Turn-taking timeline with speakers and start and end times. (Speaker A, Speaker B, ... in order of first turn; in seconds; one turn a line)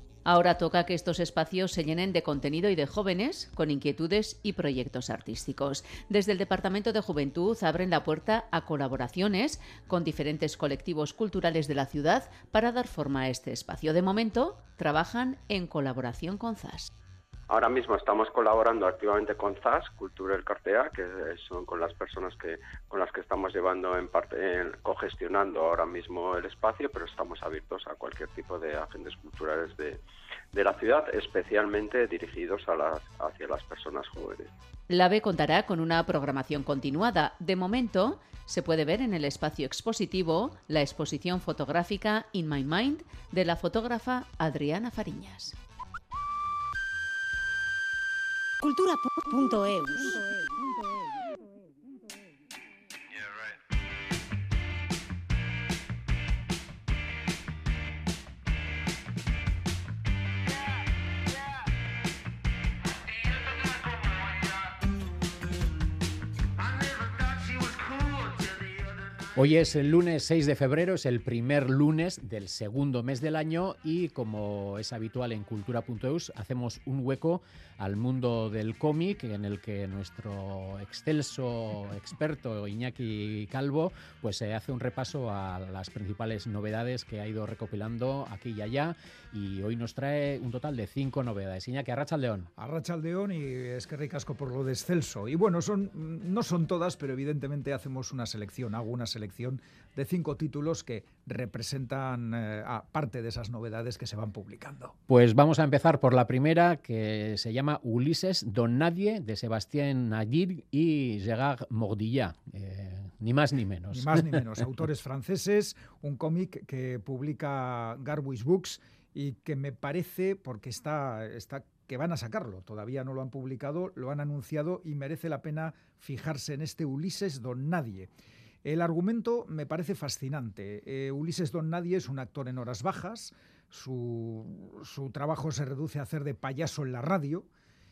Speaker A: 0.2-16.9
Speaker B: 17.5-30.0
Speaker B: 30.5-34.5
Speaker A: 34.9-45.5
Speaker C: 48.6-51.0
Speaker D: 69.3-92.5
Speaker E: 92.6-104.9
Speaker D: 105.1-114.5
Speaker E: 113.9-128.1
Speaker E: 128.6-137.5